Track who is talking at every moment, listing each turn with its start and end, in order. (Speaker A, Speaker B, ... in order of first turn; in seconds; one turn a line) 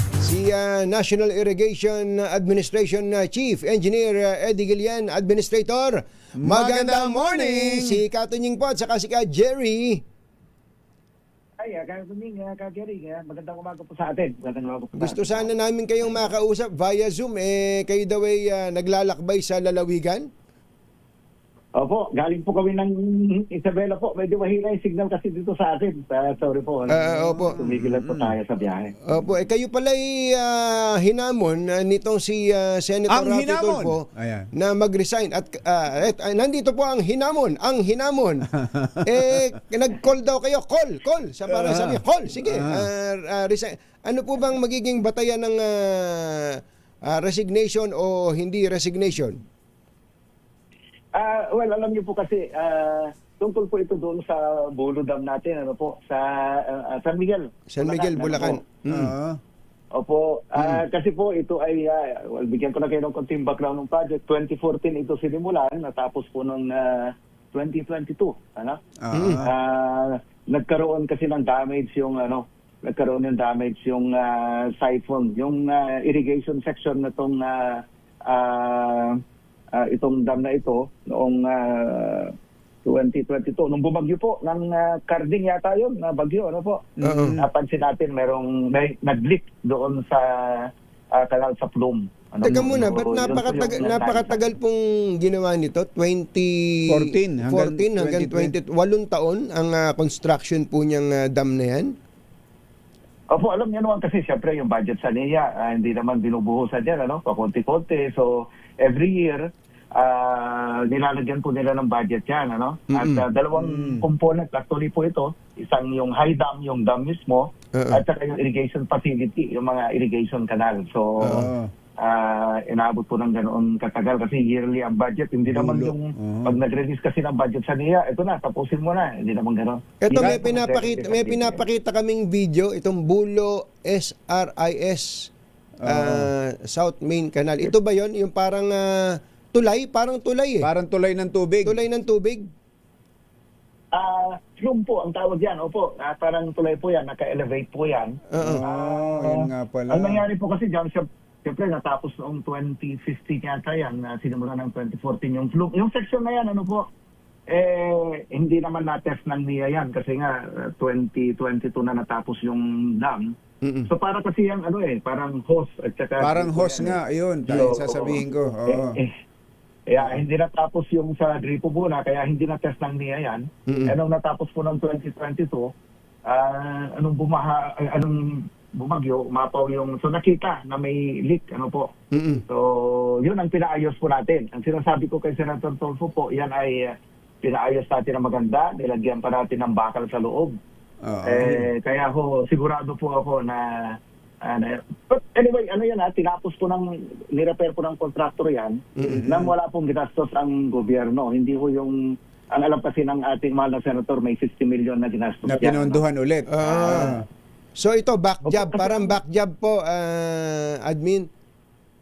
Speaker A: 0.2-10.0
Speaker B: 6.4-8.0
Speaker C: 11.6-15.5
Speaker A: 14.9-20.3
Speaker C: 21.8-28.9
Speaker A: 26.9-27.6
Speaker B: 26.9-28.3
Speaker A: 29.0-38.5
Speaker B: 33.1-34.5
Speaker B: 38.6-39.4
Speaker A: 39.0-49.4
Speaker B: 41.5-42.9
Speaker C: 51.1-58.6
Speaker A: 57.7-59.1
Speaker B: 58.9-59.4
Speaker C: 59.9-68.8
Speaker B: 69.0-69.5
Speaker A: 69.1-69.4
Speaker C: 69.4-79.2
Speaker C: 79.7-82.3
Speaker C: 82.8-94.4
Speaker B: 87.0-87.5
Speaker A: 87.0-87.4
Speaker A: 92.4-101.9
Speaker B: 96.9-98.5
Speaker C: 103.3-121.5
Speaker A: 112.9-113.2
Speaker B: 113.5-114.0
Speaker A: 117.7-118.0
Speaker A: 121.2-121.5
Speaker B: 121.2-121.7
Speaker C: 122.0-131.6
Speaker B: 125.5-126.5
Speaker A: 130.0-135.3
Speaker B: 135.8-136.3
Speaker A: 135.8-140.7
Speaker B: 140.6-141.8
Speaker A: 141.6-142.5
Speaker C: 143.9-156.9
Speaker A: 148.3-148.6
Speaker B: 148.4-150.2
Speaker C: 157.5-163.3
Speaker A: 163.6-163.9
Speaker C: 163.8-169.1
Speaker B: 166.2-169.0
Speaker C: 169.9-175.7
Speaker A: 173.7-173.9
Speaker C: 176.2-181.9
Speaker A: 182.1-182.4
Speaker C: 182.5-190.6
Speaker B: 191.0-191.7
Speaker C: 191.2-206.0
Speaker B: 199.0-199.5
Speaker B: 205.4-207.2
Speaker A: 206.5-207.2
Speaker C: 206.7-207.1
Speaker A: 207.8-211.3
Speaker C: 208.4-209.2